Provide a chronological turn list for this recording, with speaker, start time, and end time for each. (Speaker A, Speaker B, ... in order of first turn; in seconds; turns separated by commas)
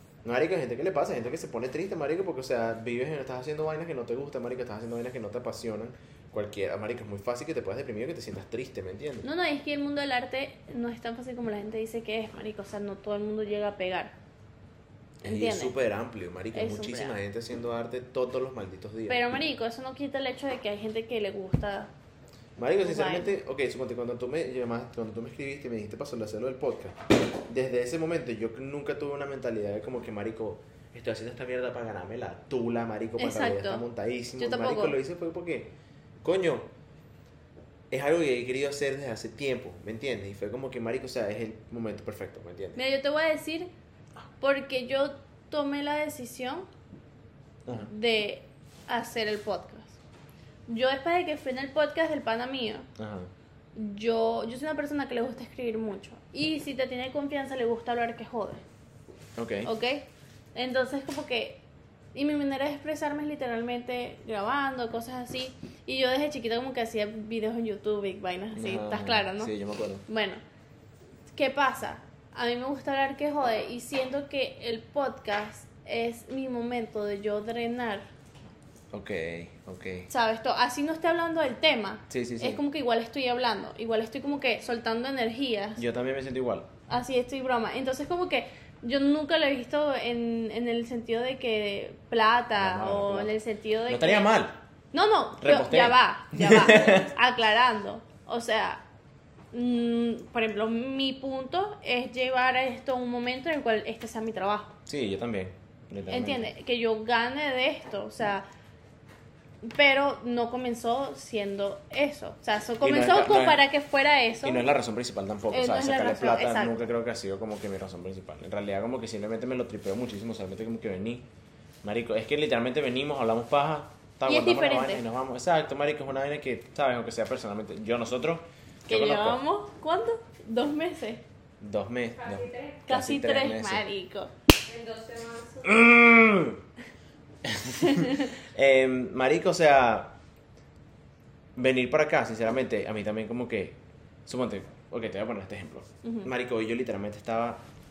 Speaker A: 0.2-9.3, Speaker B: 9.2-14.1, Speaker A: 15.2-19.2, Speaker B: 15.2-15.8, Speaker B: 16.5-17.2, Speaker B: 19.1-21.9, Speaker A: 22.6-36.7, Speaker B: 22.6-23.3, Speaker B: 33.2-33.8, Speaker B: 34.4-35.0, Speaker A: 37.9-42.8, Speaker B: 42.8-43.7, Speaker B: 44.4-46.7, Speaker B: 47.7-50.0, Speaker B: 50.7-52.9, Speaker A: 53.0-53.3, Speaker B: 53.7-58.6, Speaker A: 59.4-59.7, Speaker B: 59.6-61.6, Speaker B: 62.1-69.5, Speaker A: 68.5-70.0, Speaker B: 70.0-70.4, Speaker B: 71.3-78.1, Speaker A: 78.9-80.1, Speaker B: 80.1-85.8, Speaker A: 82.1-82.6, Speaker A: 85.8-86.7, Speaker B: 86.9-94.3, Speaker A: 92.5-93.3, Speaker A: 93.9-94.6, Speaker B: 94.9-98.8, Speaker A: 95.4-97.1, Speaker B: 99.5-104.7, Speaker A: 104.8-106.5, Speaker B: 106.1-108.5, Speaker B: 109.6-114.7, Speaker A: 112.8-113.6, Speaker A: 114.4-121.2, Speaker B: 115.5-116.8, Speaker A: 121.8-129.4, Speaker B: 124.2-125.0, Speaker B: 128.9-131.2, Speaker A: 131.6-133.8, Speaker C: 132.2-132.9, Speaker B: 132.9-134.3, Speaker C: 134.6-135.9, Speaker A: 135.6-136.6, Speaker A: 137.4-140.2, Speaker B: 137.9-138.1, Speaker A: 141.6-147.6, Speaker B: 146.0-146.3